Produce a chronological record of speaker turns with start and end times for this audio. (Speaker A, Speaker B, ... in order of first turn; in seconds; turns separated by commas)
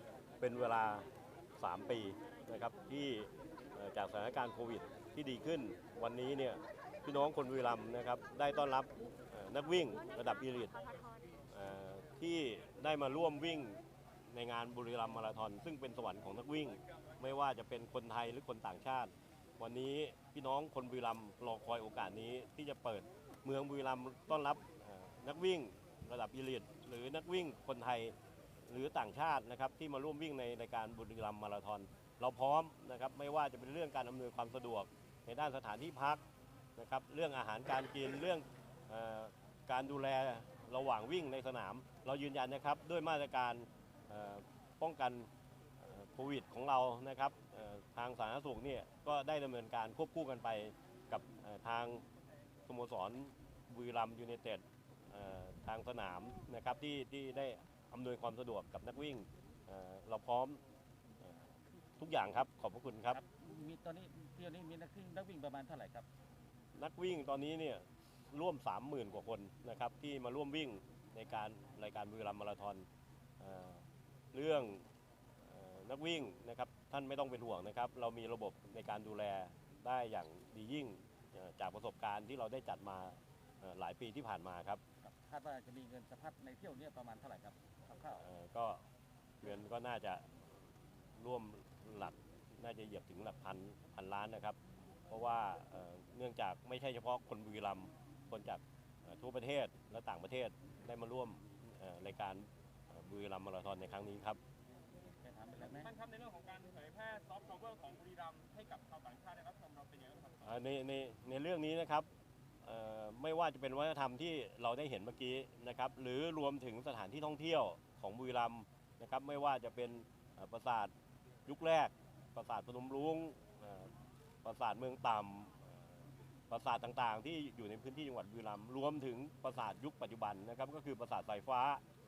Speaker A: 0.4-10.9, Speaker A: 11.5-28.1, Speaker A: 28.7-36.2, Speaker A: 36.8-52.0, Speaker A: 52.6-60.6, Speaker A: 61.2-63.2, Speaker B: 63.1-66.1, Speaker A: 66.7-72.8, Speaker A: 73.4-74.8, Speaker A: 75.4-84.8, Speaker B: 85.0-88.2, Speaker A: 88.2-88.8, Speaker A: 89.4-90.4, Speaker A: 91.2-94.6, Speaker A: 95.1-104.4, Speaker B: 105.1-105.9, Speaker C: 105.6-110.4, Speaker A: 110.4-112.1, Speaker A: 112.6-120.9, Speaker A: 121.5-123.9, Speaker A: 124.4-131.8